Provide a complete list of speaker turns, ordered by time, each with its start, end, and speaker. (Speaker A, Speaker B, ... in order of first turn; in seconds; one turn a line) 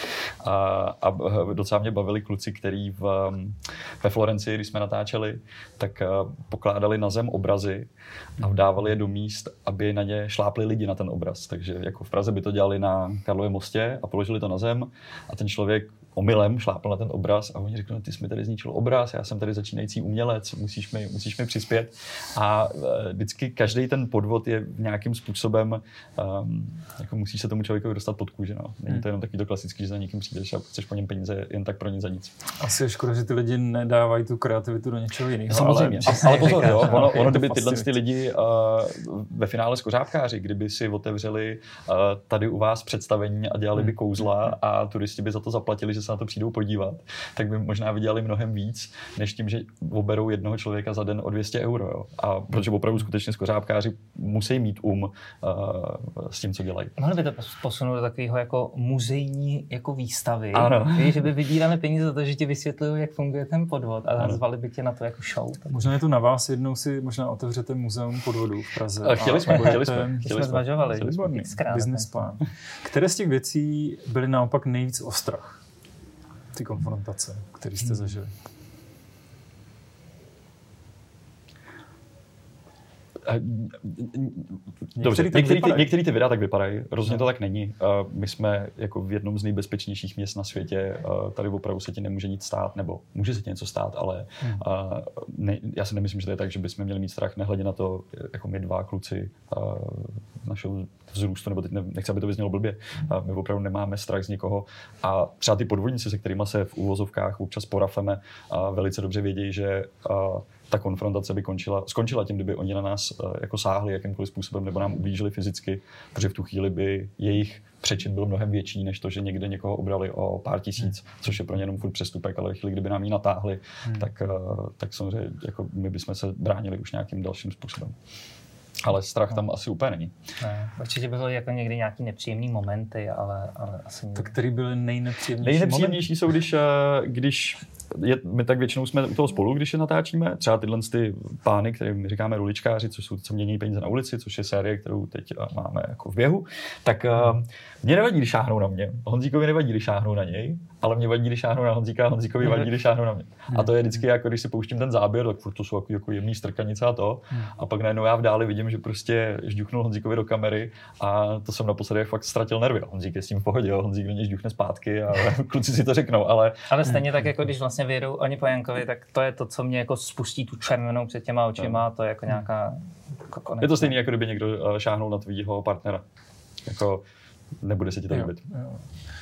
Speaker A: 0.4-32.3
Speaker B: 32.6-37.9
Speaker A: 35.5-56.9
Speaker C: 36.1-37.0
Speaker C: 57.0-65.8
Speaker A: 60.5-61.3
Speaker B: 65.7-75.6
Speaker A: 69.0-71.4
Speaker C: 70.2-72.1
Speaker B: 76.5-78.3
Speaker A: 83.2-127.9
Speaker B: 84.9-85.9
Speaker A: 128.8-130.1
Speaker C: 130.4-134.3
Speaker B: 134.1-136.1
Speaker A: 135.4-166.9
Speaker C: 166.7-174.0
Speaker A: 173.6-176.0
Speaker A: 176.7-177.0
Speaker A: 177.6-178.4
Speaker B: 178.1-178.8